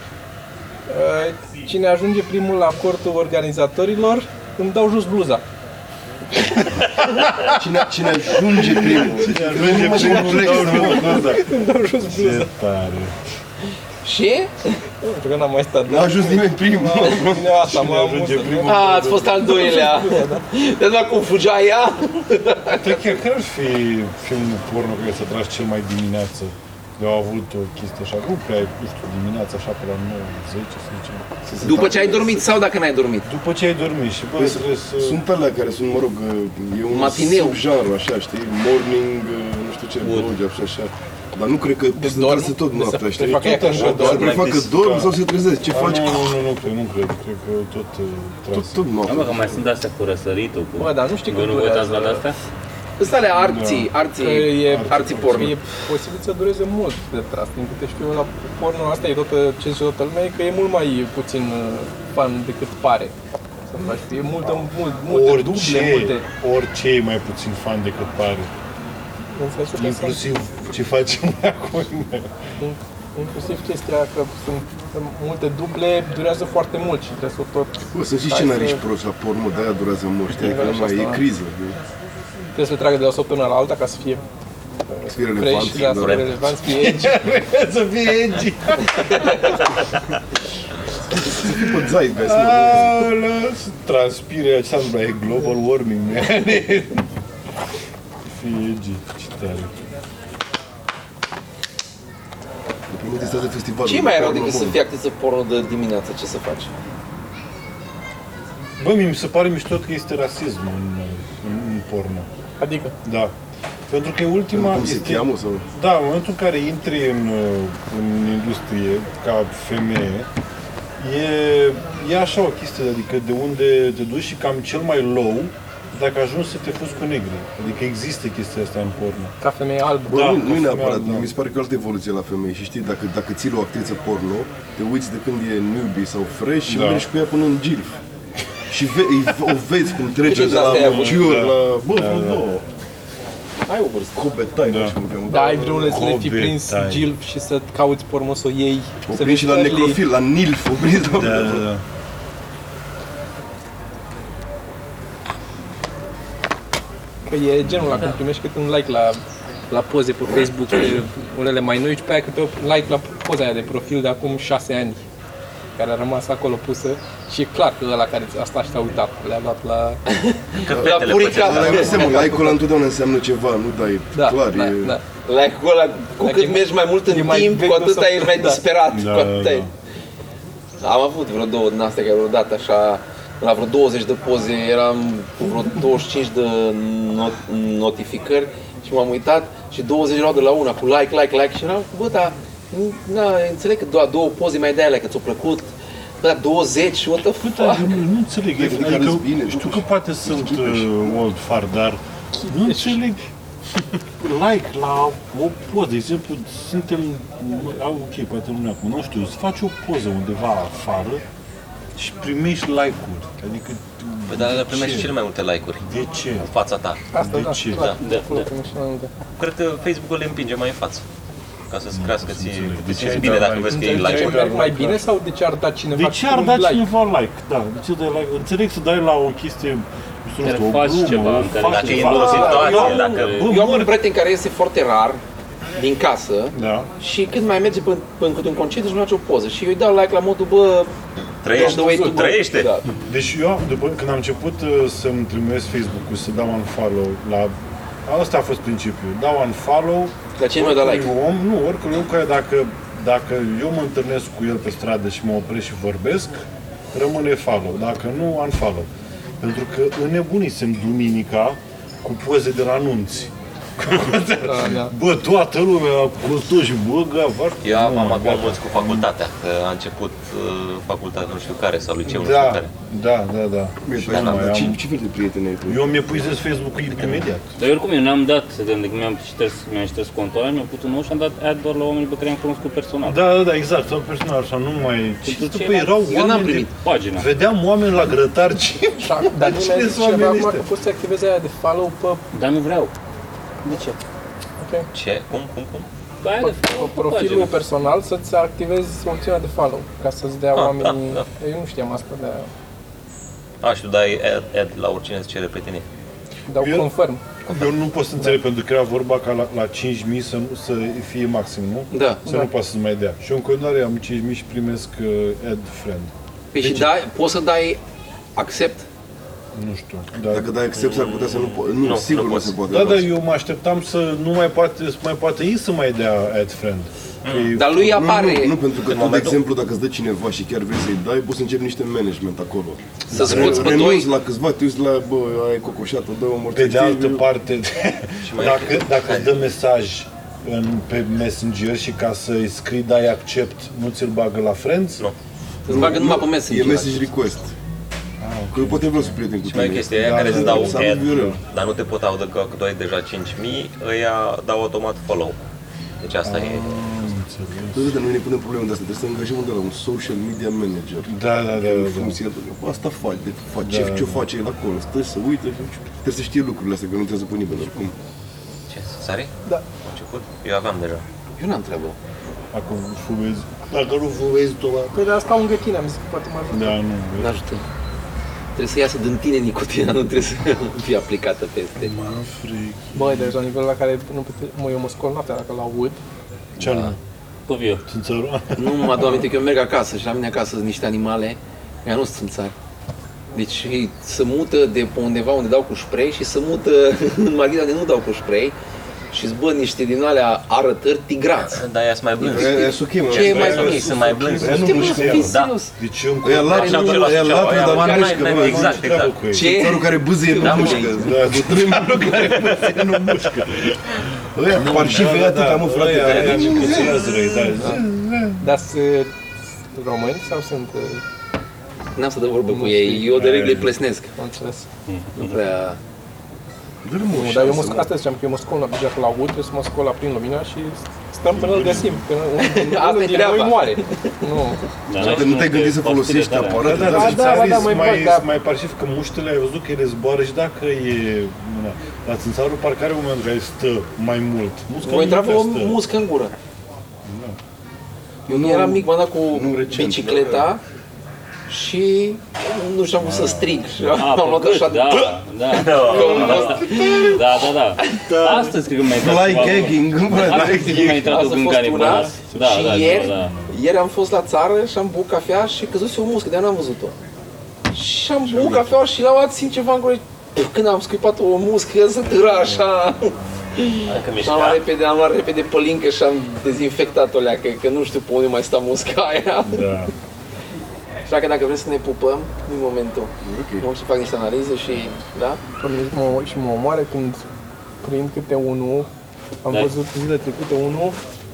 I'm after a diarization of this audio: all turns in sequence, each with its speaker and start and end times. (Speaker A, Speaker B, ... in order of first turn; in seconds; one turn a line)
Speaker A: 0.9-5.4
Speaker B: 7.1-7.5
Speaker C: 7.4-11.3
Speaker B: 8.9-11.6
Speaker A: 9.6-12.5
Speaker B: 12.1-13.1
Speaker D: 14.0-14.8
Speaker A: 15.0-18.7
Speaker C: 15.8-17.6
Speaker B: 17.6-19.5
Speaker D: 18.6-23.2
Speaker A: 19.4-20.4
Speaker B: 22.7-31.3
Speaker C: 31.4-32.4
Speaker D: 31.6-33.3
Speaker B: 33.2-35.2
Speaker C: 34.4-46.3
Speaker D: 36.9-37.6
Speaker E: 40.0-40.3
Speaker A: 41.9-44.3
Speaker B: 43.2-45.1
Speaker F: 43.7-44.8
Speaker B: 45.7-48.9
Speaker C: 48.5-49.6
Speaker E: 49.0-52.3
Speaker A: 50.8-52.2
Speaker D: 53.0-55.5
Speaker B: 53.4-53.9
Speaker A: 54.2-63.1
Speaker B: 54.5-55.5
Speaker A: 63.7-66.2
Speaker B: 65.1-68.5
Speaker A: 69.3-70.3
Speaker B: 69.8-72.4
Speaker A: 72.6-78.8
Speaker C: 77.9-81.8
Speaker A: 80.3-81.2
Speaker A: 82.5-84.2
Speaker A: 84.9-87.2
Speaker C: 85.0-86.3
Speaker F: 85.8-86.3
Speaker B: 86.7-89.6
Speaker C: 91.2-93.1
Speaker B: 91.3-91.7
Speaker B: 92.2-97.0
Speaker B: 98.2-99.7
Speaker C: 102.9-104.8
Speaker D: 103.8-106.7
Speaker B: 108.8-112.3
Speaker A: 112.6-113.0
Speaker B: 113.0-113.3
Speaker B: 113.9-120.3
Speaker C: 114.5-115.7
Speaker B: 121.0-129.3
Speaker A: 129.4-130.4
Speaker B: 130.1-131.3
Speaker C: 130.1-138.0
Speaker B: 136.7-137.1
Speaker C: 138.7-142.6
Speaker D: 140.2-141.2
Speaker B: 140.3-142.4
Speaker D: 143.7-144.2
Speaker C: 144.1-146.0
Speaker B: 144.7-144.9
Speaker A: 145.3-150.0
Speaker B: 145.8-147.1
Speaker C: 149.1-151.6
Speaker B: 151.1-151.8
Speaker A: 157.2-165.0
Speaker A: 165.8-170.0
Speaker D: 170.1-172.5
Speaker F: 170.6-172.2
Speaker C: 170.7-175.0
Speaker A: 174.1-175.0
Speaker D: 175.2-179.7
Speaker A: 176.2-178.6
Speaker B: 178.9-179.7
Speaker D: 180.8-198.0
Speaker B: 197.4-203.2
Speaker C: 198.5-201.0
Speaker A: 202.4-202.9
Speaker B: 203.7-211.2
Speaker B: 211.9-215.1
Speaker F: 214.3-215.8
Speaker B: 215.8-216.5
Speaker F: 216.4-217.0
Speaker A: 217.1-219.1
Speaker B: 217.2-217.9
Speaker F: 217.7-218.0
Speaker E: 218.0-218.5
Speaker F: 219.4-221.0
Speaker F: 221.7-224.6
Speaker B: 221.9-225.1
Speaker A: 223.7-226.8
Speaker B: 225.9-234.0
Speaker E: 230.4-233.5
Speaker F: 231.6-233.4
Speaker D: 232.1-235.2
Speaker D: 235.8-240.9
Speaker B: 236.5-236.9
Speaker F: 241.4-242.7
Speaker D: 241.5-242.8
Speaker A: 241.5-242.2
Speaker B: 243.1-258.9
Speaker D: 250.4-251.1
Speaker B: 259.4-269.1
Speaker A: 264.4-264.9
Speaker F: 267.6-272.7
Speaker B: 272.1-274.8
Speaker C: 273.8-276.2
Speaker F: 274.1-274.6
Speaker B: 275.7-277.5
Speaker E: 277.6-283.2
Speaker B: 283.0-290.6
Speaker E: 285.2-287.3
Speaker D: 286.1-286.7
Speaker A: 289.0-292.2
Speaker E: 292.3-292.9
Speaker E: 293.6-294.0
Speaker A: 294.6-294.9
Speaker F: 294.9-295.9
Speaker E: 296.2-297.6
Speaker A: 296.4-302.5
Speaker F: 300.5-301.2
Speaker F: 303.6-305.9
Speaker A: 306.5-307.2
Speaker B: 306.6-306.9
Speaker B: 307.5-316.9
Speaker D: 311.9-312.2
Speaker D: 316.5-317.8
Speaker D: 318.4-318.9
Speaker B: 319.5-321.3
Speaker C: 320.3-323.1
Speaker F: 321.1-322.6
Speaker B: 322.7-327.8
Speaker F: 327.2-327.6
Speaker D: 327.5-328.6
Speaker C: 327.7-337.2
Speaker F: 328.9-329.4
Speaker B: 333.1-333.8
Speaker D: 333.1-334.1
Speaker B: 336.5-345.1
Speaker F: 338.3-339.3
Speaker D: 345.6-347.1
Speaker C: 345.7-347.5
Speaker B: 348.2-349.2
Speaker C: 348.5-351.4
Speaker F: 349.5-355.4
Speaker B: 349.9-351.4
Speaker F: 356.0-356.6
Speaker B: 356.2-357.9
Speaker C: 357.7-367.9
Speaker B: 361.0-362.2
Speaker B: 363.6-364.2
Speaker F: 368.7-371.0
Speaker D: 371.4-372.0
Speaker B: 372.5-375.0
Speaker A: 374.9-376.8
Speaker B: 376.5-377.4
Speaker D: 377.2-377.6
Speaker D: 378.6-381.9
Speaker B: 381.8-383.4
Speaker A: 382.9-386.0
Speaker B: 386.6-387.0
Speaker D: 386.6-386.9
Speaker E: 387.5-387.8
Speaker B: 387.8-389.2
Speaker D: 388.6-392.5
Speaker D: 393.3-398.6
Speaker D: 399.1-401.6
Speaker F: 401.4-405.6
Speaker C: 402.2-405.4
Speaker D: 402.2-405.7
Speaker B: 403.1-407.1
Speaker C: 406.2-413.3
Speaker F: 406.5-409.3
Speaker D: 406.6-408.3
Speaker B: 408.2-409.5
Speaker D: 409.3-411.1
Speaker F: 410.4-410.9
Speaker B: 410.9-412.2
Speaker D: 411.8-413.0
Speaker B: 413.1-418.5
Speaker C: 414.3-417.0
Speaker F: 416.0-416.4
Speaker A: 418.4-419.1
Speaker A: 419.7-421.0
Speaker D: 421.9-424.1
Speaker A: 422.5-423.3
Speaker B: 423.1-423.7
Speaker A: 424.1-424.7
Speaker E: 424.9-425.3
Speaker D: 425.1-425.8
Speaker C: 426.8-427.9
Speaker A: 427.1-434.6
Speaker B: 431.4-432.0
Speaker C: 431.4-431.8
Speaker D: 432.4-434.1
Speaker E: 434.9-436.9
Speaker C: 434.9-437.5
Speaker B: 436.6-445.8
Speaker A: 436.8-438.3
Speaker D: 444.8-446.3
Speaker B: 447.0-447.4
Speaker C: 448.3-450.5
Speaker D: 448.3-450.6
Speaker D: 451.5-458.0
Speaker B: 453.0-454.1
Speaker E: 453.9-463.3
Speaker F: 455.5-456.6
Speaker B: 456.2-457.2
Speaker B: 457.9-458.6
Speaker C: 458.9-461.2
Speaker D: 460.4-467.0
Speaker B: 461.7-463.6
Speaker D: 467.7-479.7
Speaker C: 468.3-468.6
Speaker B: 472.2-473.5
Speaker F: 473.9-474.6
Speaker B: 479.4-479.9
Speaker D: 481.1-485.4
Speaker C: 483.2-483.6
Speaker A: 485.6-487.2
Speaker A: 487.8-488.9
Speaker A: 489.4-491.0